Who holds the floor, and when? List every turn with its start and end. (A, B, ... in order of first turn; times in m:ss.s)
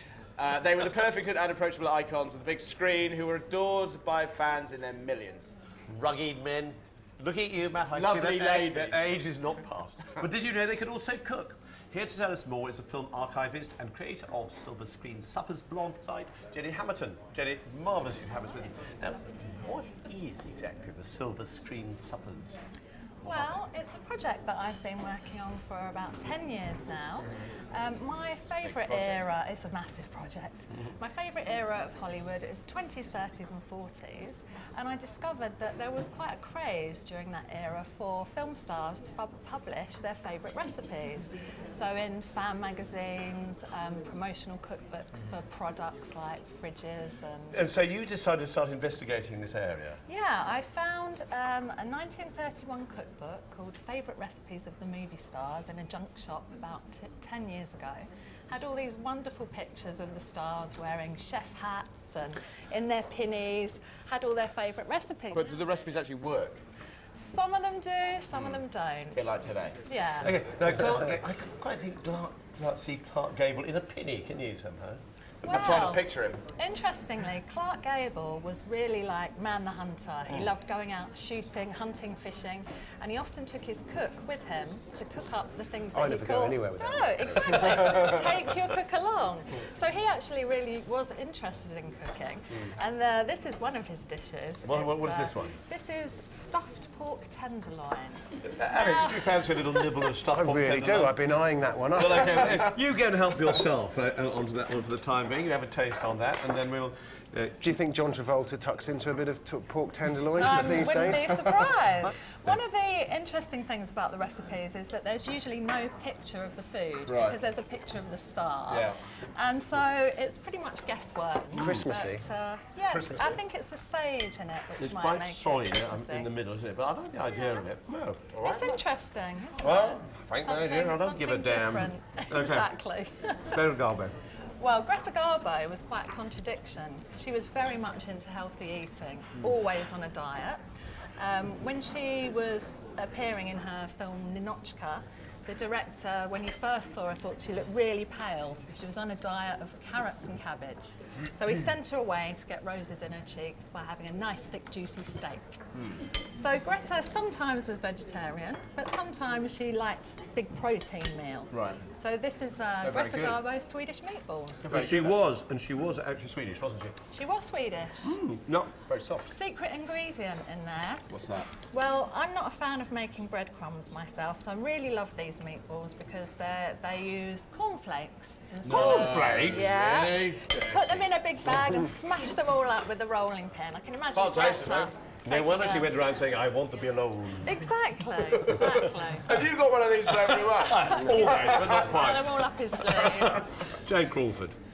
0:00.4-0:05.5 A
0:05.9-0:22.6 B
0:07.9-0:09.1 A
0:23.2-0:23.6 B
0:23.2-0:47.6 C
0:28.6-0:29.2 A
0:47.5-0:50.0 B
0:50.1-1:05.6 C
1:05.3-1:06.6 A
1:07.2-1:09.2 C
1:08.3-1:08.6 A
1:09.1-1:09.8 A
1:09.8-1:10.3 C
1:10.2-1:15.9 B
1:15.4-1:40.1 C
1:15.4-1:16.4 A
1:25.9-1:28.0 D
1:34.6-1:35.5 B
1:38.4-1:41.2 B
1:40.3-1:42.5 D
1:41.9-1:47.7 B
1:47.6-1:51.5 D
1:50.4-2:06.3 C
1:57.1-1:57.4 A
1:58.7-1:59.0 A
2:01.5-2:02.2 D
2:01.6-2:01.8 B
2:02.9-2:03.4 A
2:04.8-2:08.4 B
2:08.3-2:08.8 A
2:08.4-2:13.6 C
2:09.6-2:12.7 B
2:13.5-2:14.1 B
2:14.6-2:20.6 C
2:21.2-2:35.6 C
2:36.2-2:44.7 C
2:41.5-2:41.8 A
2:42.8-2:43.4 A
2:44.6-2:45.2 A
2:44.7-2:47.0 B
2:47.1-2:48.2 C
2:48.0-2:48.8 B
2:48.9-2:49.3 A
2:49.2-2:51.0 C
2:51.1-2:51.5 A
2:51.7-3:06.0 C
2:58.6-3:01.0 A
2:58.6-2:59.9 B
3:04.1-3:04.9 A
3:05.2-3:07.7 B
3:07.4-3:09.3 C
3:08.2-3:12.0 A
3:08.6-3:08.8 B
3:10.1-3:14.6 B
3:10.8-3:13.6 C